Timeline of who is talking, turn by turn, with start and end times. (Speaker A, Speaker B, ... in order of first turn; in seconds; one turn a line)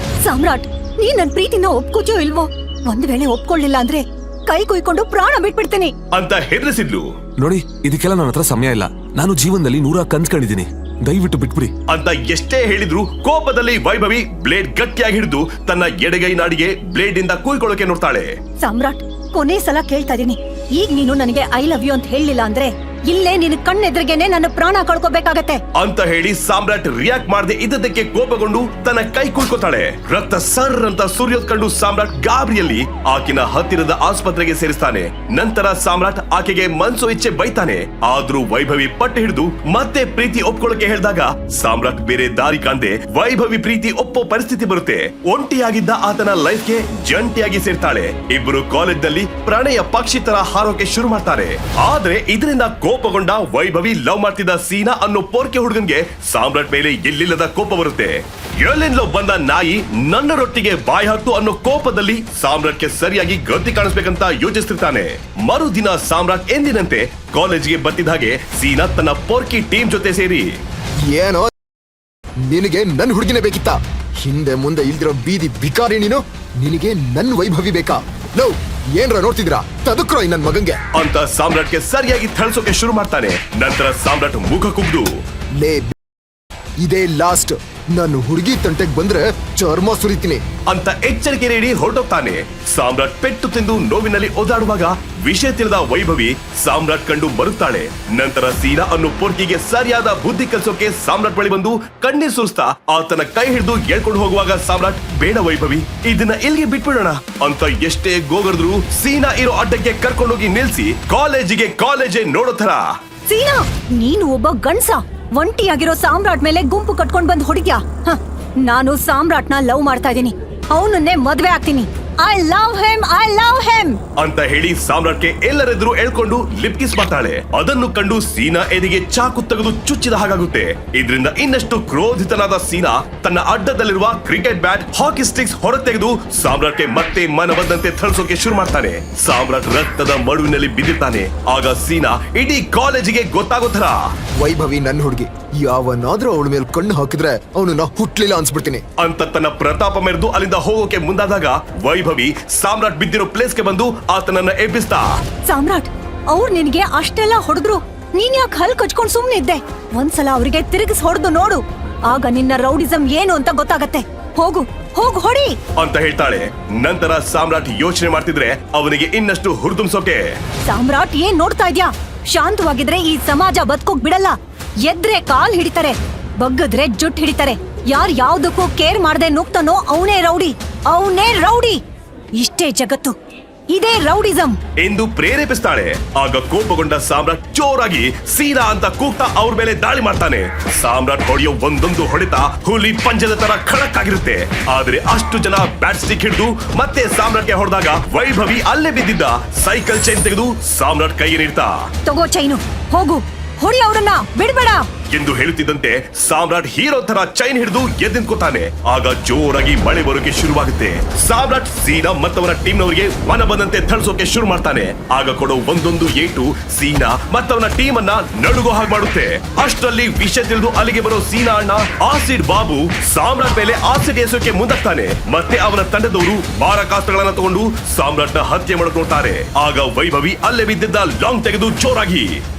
Speaker A: 0.2-5.9
Speaker B: 6.1-7.1
Speaker C: 7.4-11.7
Speaker B: 11.9-18.3
Speaker A: 18.6-25.6
Speaker B: 25.8-70.6
Speaker D: 71.0-71.5
Speaker D: 72.5-80.8
Speaker B: 80.9-85.1
Speaker D: 85.6-86.0
Speaker D: 86.8-90.4
Speaker B: 90.7-112.9
Speaker A: 113.3-124.0
Speaker B: 124.2-144.1
Speaker D: 144.4-148.8
Speaker B: 149.0-155.2
Speaker A: 155.4-165.6
Speaker B: 165.8-170.4
Speaker A: 170.6-181.8
Speaker A: 182.3-183.1
Speaker A: 183.7-184.6
Speaker B: 184.8-201.9
Speaker A: 202.0-204.9
Speaker B: 205.1-232.4